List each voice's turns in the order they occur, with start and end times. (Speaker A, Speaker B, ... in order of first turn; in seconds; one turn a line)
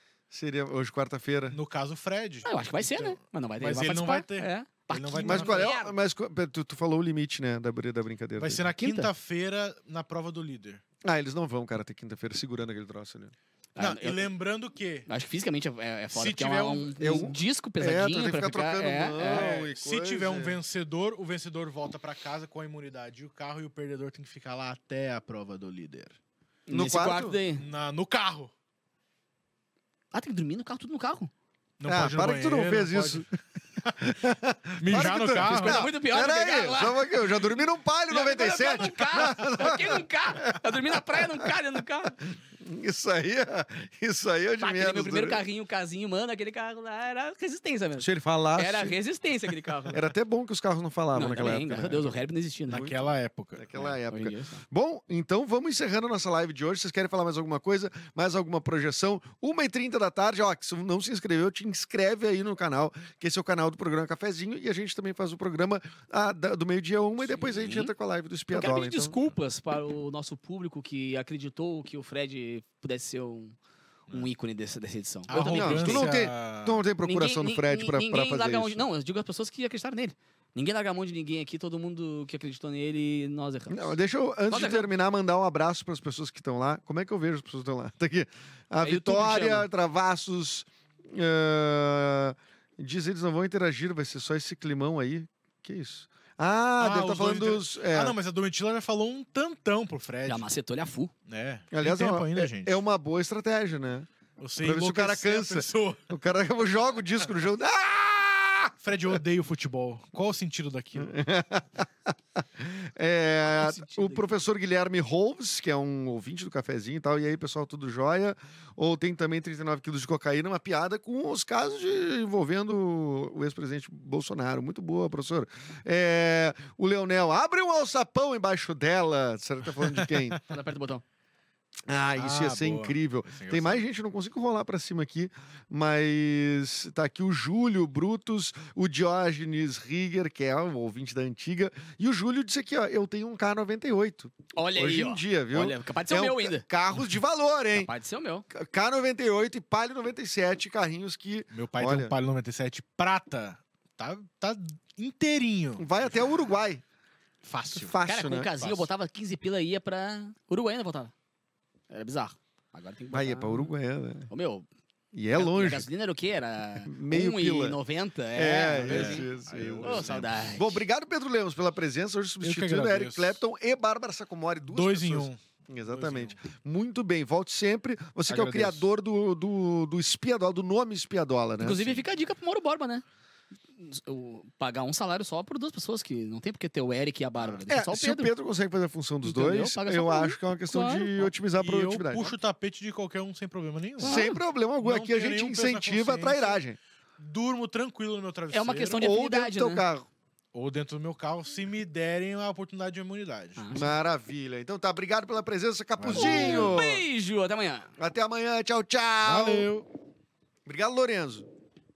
Speaker A: 0.3-1.6
Speaker B: 1.5-5.7
Speaker C: 2.4-5.9
Speaker A: 5.2-8.7
Speaker B: 8.4-10.8
Speaker C: 8.8-9.1
Speaker A: 11.0-13.3
Speaker C: 13.8-14.2
Speaker B: 13.8-15.1
Speaker C: 15.1-19.5
Speaker B: 16.1-17.0
Speaker A: 17.0-20.6
Speaker B: 19.3-26.2
Speaker C: 26.7-27.6
Speaker A: 26.7-27.4
Speaker B: 27.6-28.5
Speaker C: 30.1-31.3
Speaker B: 31.8-34.0
Speaker A: 31.9-33.3
Speaker A: 34.0-45.4
Speaker B: 34.8-35.9
Speaker C: 35.0-37.0
Speaker C: 38.1-42.1
Speaker C: 44.6-50.0
Speaker A: 48.0-49.0
Speaker A: 49.9-52.1
Speaker C: 51.1-52.9
Speaker B: 52.7-53.6
Speaker A: 53.6-69.2
Speaker C: 53.7-54.6
Speaker C: 67.2-67.9
Speaker C: 68.5-73.5
Speaker C: 74.1-76.1
Speaker B: 75.3-76.8
Speaker A: 75.3-78.8
Speaker C: 77.0-84.0
Speaker A: 83.7-98.2
Speaker C: 84.5-84.9
Speaker C: 88.8-89.7
Speaker B: 96.8-100.5
Speaker C: 100.2-101.1
Speaker B: 101.3-102.8
Speaker A: 101.7-104.1
Speaker B: 104.4-106.1
Speaker A: 104.6-108.7
Speaker B: 108.8-111.2
Speaker A: 110.9-130.4
Speaker C: 113.5-114.3
Speaker B: 129.8-130.4
Speaker C: 130.5-131.0
Speaker A: 131.9-147.9
Speaker B: 132.2-133.8
Speaker C: 144.5-146.6
Speaker C: 147.7-148.4
Speaker A: 148.5-152.1
Speaker B: 151.5-155.9
Speaker A: 155.8-156.8
Speaker B: 157.4-157.9
Speaker A: 157.8-158.8
Speaker C: 158.0-161.1
Speaker C: 161.9-163.7
Speaker A: 163.1-164.3
Speaker C: 164.3-164.7
Speaker A: 165.1-165.9
Speaker C: 165.3-169.3
Speaker A: 166.8-167.8
Speaker A: 168.3-182.0
Speaker B: 168.8-170.6
Speaker C: 169.8-170.7
Speaker B: 172.4-173.4
Speaker B: 174.7-176.4
Speaker B: 178.3-178.9
Speaker C: 181.6-183.0
Speaker C: 183.8-188.3
Speaker A: 187.6-192.3
Speaker C: 189.2-191.1
Speaker B: 191.4-194.2
Speaker C: 194.0-194.4
Speaker A: 194.0-196.8
Speaker B: 194.8-196.6
Speaker B: 197.2-199.0
Speaker C: 198.5-199.8
Speaker A: 199.0-200.1
Speaker B: 200.5-203.7
Speaker C: 203.6-203.9
Speaker A: 203.7-207.0
Speaker B: 206.0-206.8
Speaker C: 206.1-207.9
Speaker A: 208.0-209.7
Speaker B: 209.2-209.9
Speaker A: 210.7-211.5